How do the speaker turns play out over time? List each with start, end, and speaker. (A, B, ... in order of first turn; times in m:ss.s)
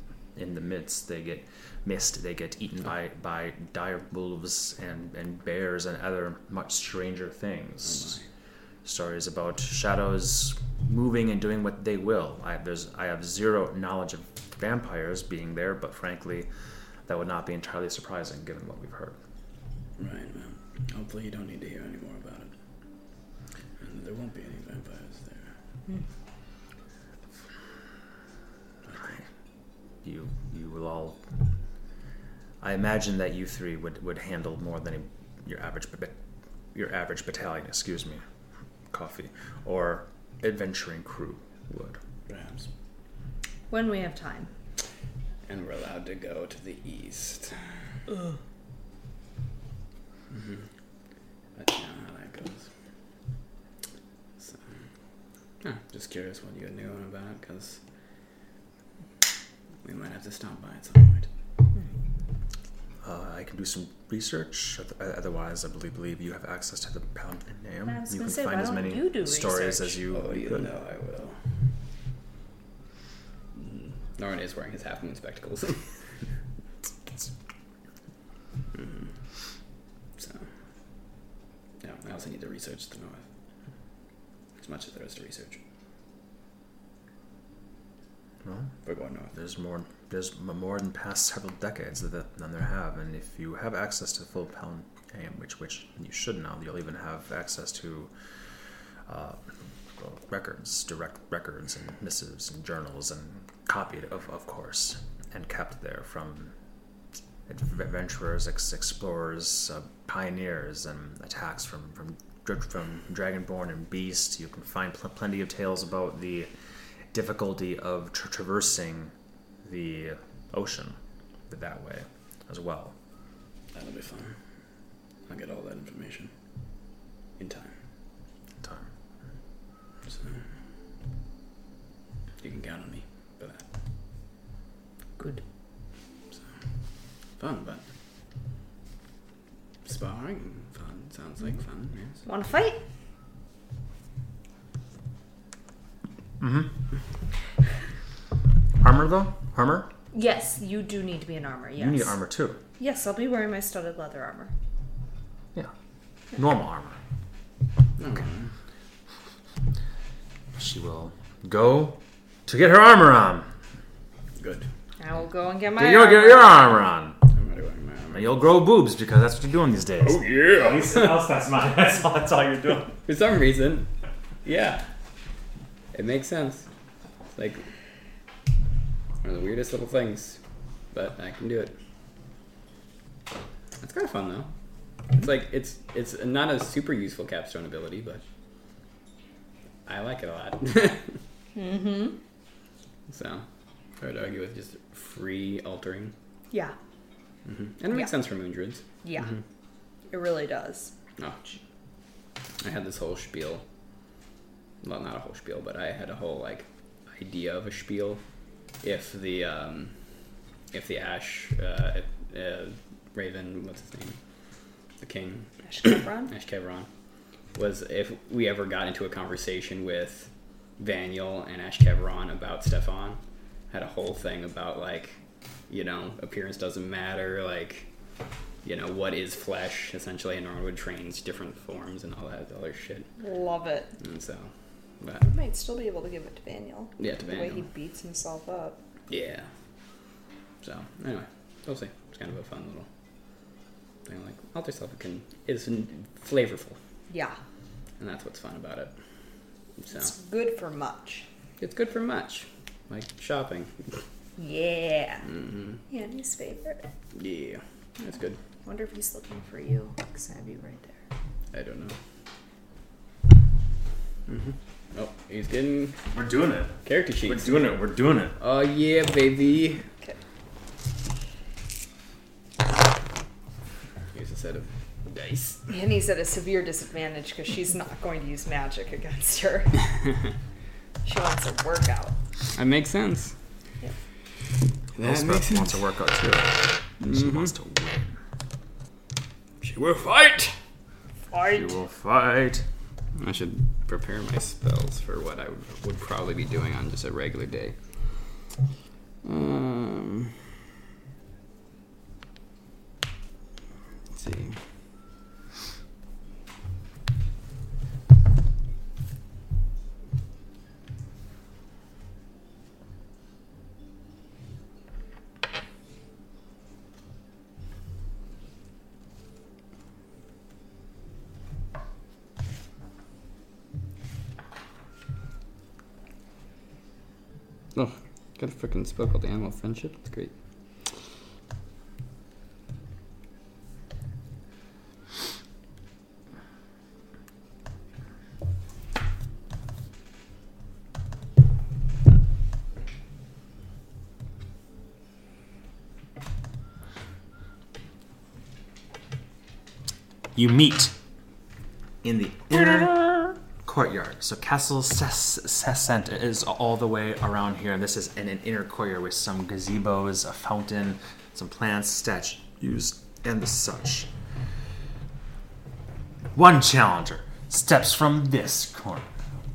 0:00.4-0:08.2 A
0:07.9-0:08.2 B
0:08.8-0:16.5 A
0:17.1-0:19.2 A
0:20.0-0:22.5 B
0:23.8-0:25.5 B
0:29.0-0:29.2 A
0:30.0-0:31.2 A
0:32.6-0:36.2 A
0:36.7-0:38.2 A
0:38.9-0:42.0 A
0:42.3-0:42.7 B
0:43.7-0:44.5 C
0:45.5-0:47.8 B
0:50.3-0:50.6 B
0:51.6-0:52.7 B
0:54.4-0:54.7 B
0:55.6-0:57.8 B
0:59.8-1:01.3 B
1:03.0-1:10.7 A
1:07.9-1:10.0 C
1:10.1-1:11.4 B
1:13.6-1:15.9 B
1:18.7-1:19.1 B
1:20.2-1:20.5 B
1:21.8-1:23.2 B
1:24.6-1:25.6 B
1:28.4-1:28.7 A
1:28.8-1:29.3 B
1:29.3-1:38.1 A
1:39.1-1:39.4 A
1:40.0-1:46.5 A
1:47.5-1:56.5 A
1:57.1-1:59.1 A
1:59.6-2:01.0 A
2:01.5-2:03.0 A
2:03.7-2:04.4 B
2:05.3-2:06.3 B
2:07.4-2:07.8 B
2:08.6-2:08.9 A
2:10.0-2:10.5 B
2:12.4-2:13.7 B
2:15.2-2:15.4 C
2:17.4-2:17.8 B
2:19.8-2:22.2 B
2:22.2-2:22.8 C
2:26.4-2:26.7 A
2:28.8-2:29.9 A
2:30.1-2:32.2 C
2:31.8-2:32.6 A
2:32.8-2:34.5 C
2:36.3-2:37.0 A
2:38.0-2:38.5 B
2:40.6-2:43.5 A
2:44.4-2:44.7 B
2:45.0-2:46.8 C
2:45.7-2:47.2 A
2:47.3-2:48.4 B
2:48.1-2:53.0 A
2:50.0-2:51.2 B
2:53.0-2:53.9 B
2:54.4-2:54.8 B
2:55.9-2:56.7 B
2:57.4-2:57.7 B
2:59.2-3:00.4 B
3:00.9-3:01.7 B
3:03.8-3:04.5 B
3:05.1-3:08.2 B
3:09.9-3:11.2 B
3:11.6-3:12.2 C
3:13.1-3:13.5 B
3:14.0-3:16.2 B
3:17.5-3:19.4 B
3:19.0-3:19.3 C
3:20.1-3:20.9 C
3:21.2-3:21.4 B
3:22.6-3:23.6 B
3:24.8-3:28.2 B
3:28.8-3:29.9 B
3:30.7-3:34.2 B
3:35.0-3:36.9 B
3:35.6-3:36.3 C
3:37.6-3:43.2 B
3:43.7-3:45.2 B
3:45.7-3:47.9 B
3:48.6-3:53.1 B
3:53.2-3:53.9 C
3:54.0-3:55.3 B
3:55.2-3:58.8 C
3:57.0-3:57.6 B
3:59.1-3:59.5 B
4:00.6-4:02.9 B
4:04.0-4:06.8 B
4:07.1-4:07.4 C
4:08.0-4:08.9 B
4:09.8-4:10.1 B
4:09.9-4:11.3 C
4:11.6-4:14.0 B
4:14.4-4:15.3 C
4:15.3-4:15.8 B
4:15.9-4:16.9 C
4:17.2-4:18.4 B
4:18.6-4:21.0 C
4:21.5-4:22.0 B
4:24.3-4:26.0 B
4:26.1-4:26.8 A
4:26.8-4:27.7 B
4:27.3-4:28.4 A
4:28.4-4:29.8 B
4:34.1-4:35.6 B
4:35.7-4:39.8 C
4:41.0-4:42.2 C
4:42.6-4:43.3 B
4:45.0-4:45.8 B
4:45.0-4:48.2 A
4:47.0-4:47.5 B
4:49.6-4:50.6 B
4:51.3-4:51.7 C
4:51.5-4:52.6 A
4:53.2-4:57.8 B
4:59.2-5:00.5 B
5:04.1-5:04.6 B
5:27.8-5:30.3 B
5:50.4-5:50.9 A
5:52.0-6:04.1 A
6:06.4-6:09.1 A